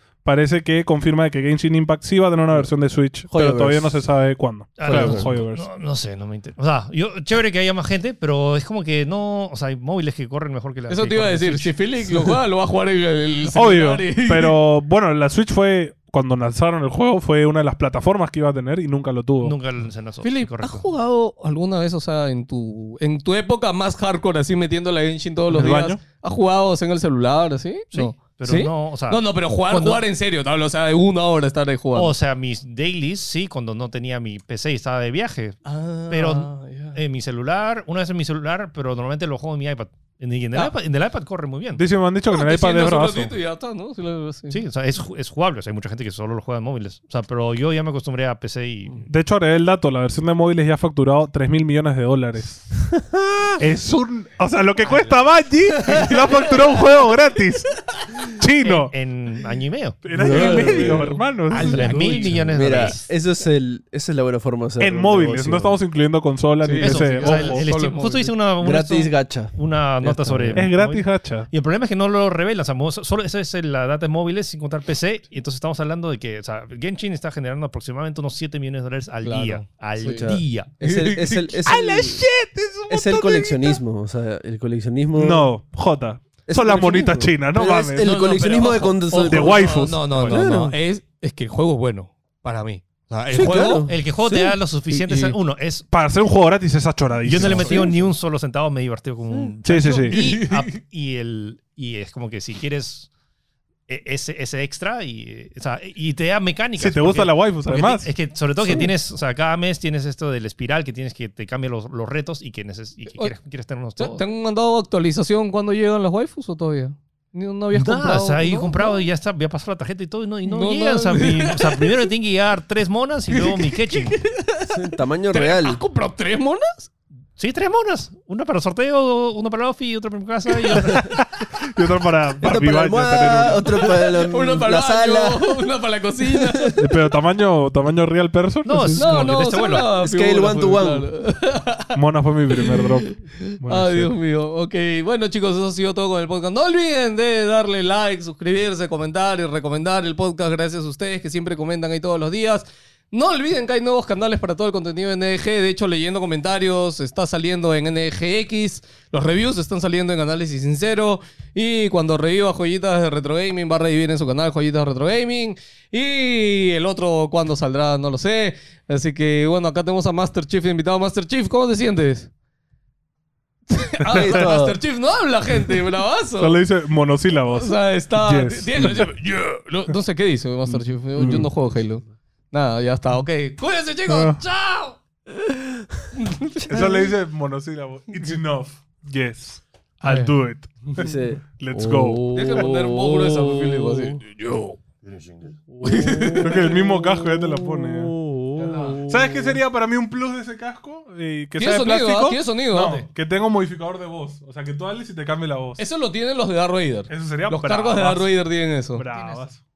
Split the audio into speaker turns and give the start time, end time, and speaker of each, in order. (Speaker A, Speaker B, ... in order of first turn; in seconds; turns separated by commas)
Speaker A: 0.2-5.7, Speaker B: 3.3-4.1, Speaker C: 4.8-12.3, Speaker B: 4.9-5.3, Speaker D: 10.9-14.6, Speaker A: 13.5-19.6, Speaker C: 19.4-20.9, Speaker D: 20.2-32.1, Speaker A: 25.5-26.0, Speaker C: 27.9-30.1, Speaker C: 31.9-41.8, Speaker D: 35.6-37.0, Speaker A: 41.8-43.3, Speaker D: 42.3-44.6, Speaker C: 44.5-49.1, Speaker A: 49.1-52.6, Speaker B: 52.8-53.6, Speaker A: 53.6-57.8, Speaker D: 55.9-56.5, Speaker A: 58.3-58.9, Speaker C: 58.6-60.6, Speaker A: 60.0-62.3, Speaker B: 60.1-61.2, Speaker D: 60.2-63.0, Speaker C: 61.5-63.0, Speaker B: 62.5-65.8, Speaker A: 64.8-67.7, Speaker D: 66.6-68.3, Speaker C: 66.8-80.7, Speaker B: 68.6-70.7, Speaker A: 70.5-71.5, Speaker D: 79.2-80.3, Speaker B: 80.1-82.3, Speaker A: 80.8-83.8, Speaker B: 82.9-85.5, Speaker A: 85.1-88.2, Speaker B: 86.5-90.8, Speaker D: 88.0-93.9, Speaker A: 89.3-90.0, Speaker C: 90.1-90.5, Speaker B: 93.3-95.4, Speaker C: 93.4-95.9, Speaker A: 95.9-97.9, Speaker C: 97.2-103.1, Speaker B: 97.4-98.1, Speaker D: 97.5-97.9, Speaker A: 99.7-100.2, Speaker D: 99.9-100.7, Speaker C: 103.9-114.2, Speaker A: 106.8-108.1, Speaker D: 114.0-119.0, Speaker C: 117.7-124.2, Speaker D: 120.5-121.9, Speaker D: 123.3-124.8, Speaker B: 124.7-125.8, Speaker D: 125.3-126.9, Speaker C: 127.4-131.2, Speaker A: 131.0-133.8, Speaker B: 132.4-135.7, Speaker D: 133.8-136.8, Speaker B: 136.2-136.8, Speaker A: 136.8-139.1, Speaker C: 138.7-139.9, Speaker D: 139.0-142.0, Speaker B: 139.9-141.1, Speaker A: 141.9-144.1, Speaker D: 142.5-172.3, Speaker D: 173.7-176.6, Speaker A: 174.0-174.4, Speaker B: 174.1-174.8, Speaker A: 176.4-179.1, Speaker D: 177.5-185.0, Speaker A: 180.7-181.5, Speaker B: 181.2-181.5, Speaker A: 184.1-184.4, Speaker D: 186.2-187.0, Speaker A: 186.7-191.0, Speaker D: 190.1-190.3, Speaker B: 191.0-194.2, Speaker A: 191.6-192.3, Speaker D: 192.3-194.8, Speaker C: 195.0-195.5, Speaker B: 195.7-199.6, Speaker D: 195.8-196.8, Speaker A: 196.4-198.2, Speaker D: 198.6-199.0, Speaker A: 199.1-205.8, Speaker D: 201.6-203.1, Speaker D: 205.8-209.1, Speaker A: 207.1-208.3, Speaker A: 208.9-209.6, Speaker C: 209.1-209.6